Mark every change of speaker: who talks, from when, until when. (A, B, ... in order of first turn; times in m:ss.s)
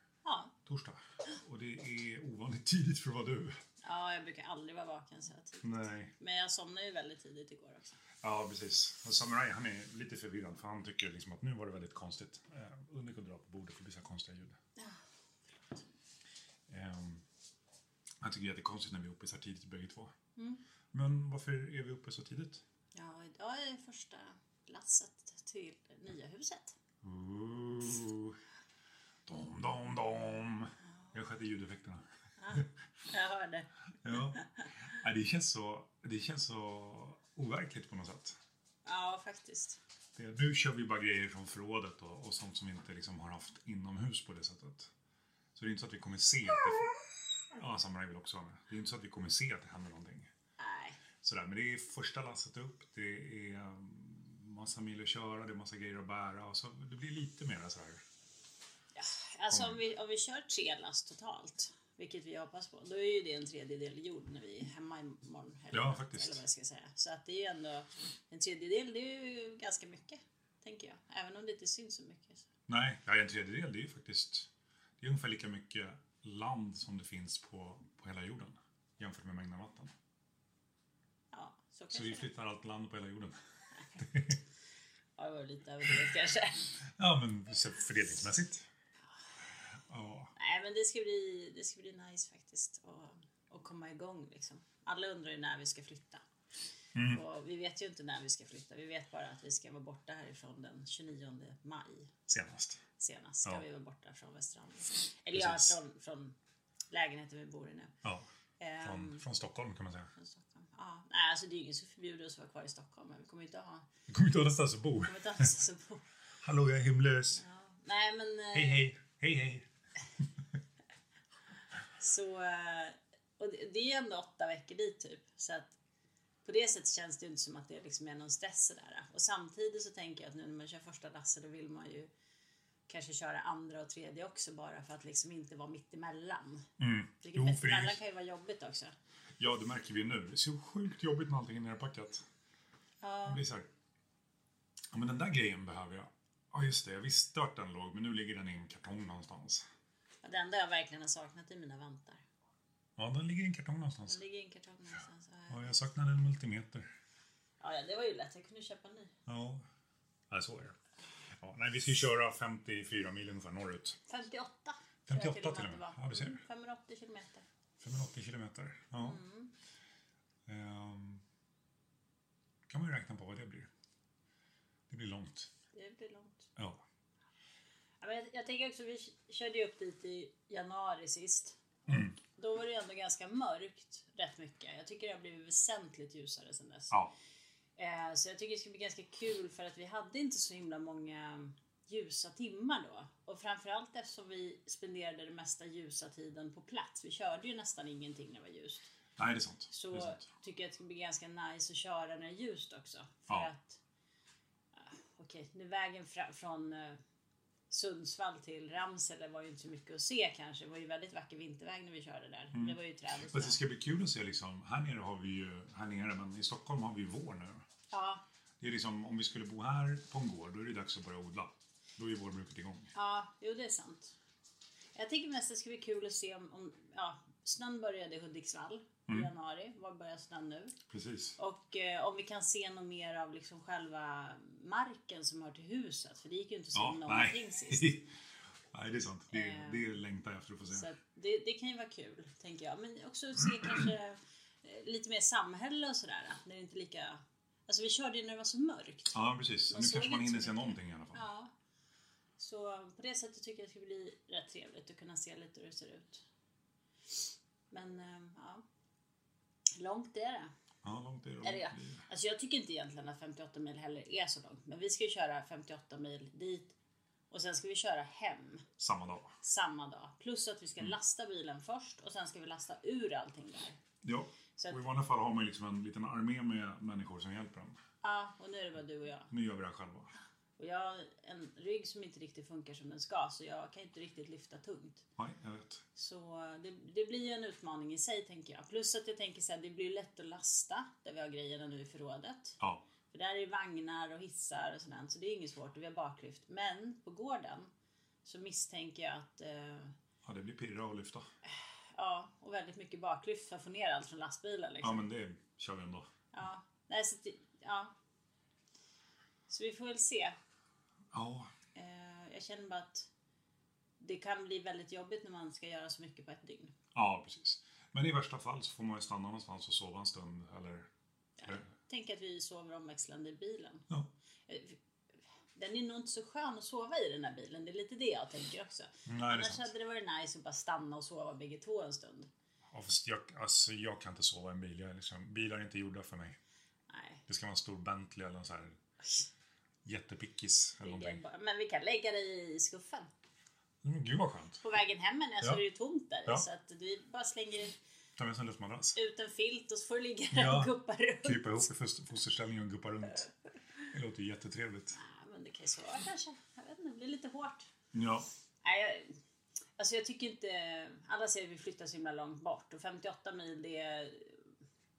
0:00.2-0:00.5 A
0:00.6-0:03.6 B
0:03.8-0:08.0 A
0:05.6-0:06.1 B
0:08.2-0:14.6 B
0:14.8-0:15.8 A
0:16.7-0:17.2 B
0:18.2-0:20.1 B
0:20.4-0:20.6 A
0:20.9-0:22.6 B
0:22.9-0:26.8 A
0:27.0-0:28.4 B
0:29.2-0:32.6 B
0:32.4-0:34.4 A
0:34.0-0:38.4 B
0:38.8-0:39.8 A
0:40.1-0:44.9 B
0:45.5-0:47.0 B
0:47.5-0:50.3 B
0:50.6-0:51.0 A
0:51.2-0:58.0 B
0:58.9-1:12.4 A
1:05.7-1:06.4 B
1:12.7-1:19.9 B
1:21.3-1:22.3 A
1:21.9-1:23.4 B
1:24.0-1:24.4 B
1:25.2-1:26.7 A
1:27.0-1:28.7 B
1:29.8-1:30.3 B
1:30.4-1:36.2 A
1:36.9-1:37.2 B
1:37.1-1:42.1 A
1:42.3-1:42.8 B
1:43.0-1:46.4 A
1:45.3-1:45.8 B
1:46.9-1:47.9 A
1:48.6-1:49.2 A
1:48.8-1:50.1 B
1:50.2-1:53.8 A
1:54.1-1:55.5 B
1:55.0-1:56.0 A
1:56.4-1:57.4 B
1:57.4-1:58.9 A
1:58.5-1:59.7 B
2:02.0-2:05.7 A
2:06.4-2:12.1 A
2:12.9-2:16.6 A
2:16.8-2:18.0 B
2:17.2-2:18.9 A
2:19.4-2:22.2 B
2:23.0-2:23.4 A
2:23.2-2:23.7 B
2:24.9-2:29.6 B
2:30.2-2:32.2 A
2:33.0-2:34.2 B
2:34.1-2:35.7 A
2:35.5-2:36.9 B
2:37.6-2:39.1 A
2:39.2-2:39.6 B
2:40.3-2:40.8 B
2:41.4-2:44.0 B
2:44.1-2:47.4 A
2:45.1-2:46.4 B
2:47.8-2:49.2 B
2:49.0-2:49.5 A
2:50.5-2:51.2 B
2:52.7-2:53.7 B
2:54.9-2:55.5 B
2:55.7-2:56.5 A
2:56.6-2:56.8 B
2:58.0-3:01.6 A
3:01.9-3:02.2 B
3:02.2-3:07.0 A
3:07.8-3:18.9 A
3:19.2-3:20.3 B
3:19.7-3:23.8 A
3:24.7-3:27.0 A
3:27.7-3:33.6 A
3:32.5-3:37.6 B
3:37.9-3:38.2 A
3:38.6-3:42.9 B
3:42.9-3:44.2 A
3:44.9-3:50.7 A
3:50.9-3:51.4 B
3:51.4-3:57.9 A
3:56.7-3:58.1 B
3:58.7-4:00.9 B
3:59.3-3:59.9 A
4:00.7-4:09.2 A
4:09.1-4:11.2 B
4:09.7-4:11.5 A
4:12.4-4:16.2 A
4:17.7-4:18.6 A
4:19.8-4:20.5 A
4:20.8-4:22.0 B
4:21.4-4:26.7 A
4:27.3-4:28.6 A
4:28.8-4:29.4 B
4:29.4-4:33.8 A
4:34.0-4:37.8 B
4:38.0-4:39.3 A
4:39.3-4:40.1 B
4:40.6-4:45.0 A
4:45.2-4:45.8 B
4:46.0-4:52.6 A
4:52.6-4:52.8 B
4:53.1-4:57.7 A
4:58.2-4:59.9 A
5:00.2-5:01.3 B
5:01.4-5:05.0 A
5:04.8-5:06.1 B
5:06.3-5:07.9 A
5:09.5-5:10.4 A
5:11.1-5:11.5 B
5:11.7-5:13.1 A
5:14.0-5:16.7 A
5:16.9-5:20.9 B
5:21.4-5:23.9 A
5:24.5-5:24.8 A
5:25.5-5:32.3 A
5:29.0-5:29.7 B
5:32.7-5:36.4 B
5:36.9-5:37.2 A
5:37.3-5:38.8 B
5:39.8-5:41.2 B
5:40.8-5:43.1 A
5:43.8-5:44.6 B
5:44.6-5:47.8 A
5:48.2-5:49.0 B
5:49.0-5:51.6 A
5:50.3-5:53.3 B
5:53.9-5:55.0 B
5:55.0-5:57.7 A
5:57.9-5:58.3 B
5:58.6-5:59.2 A
5:59.8-6:04.5 A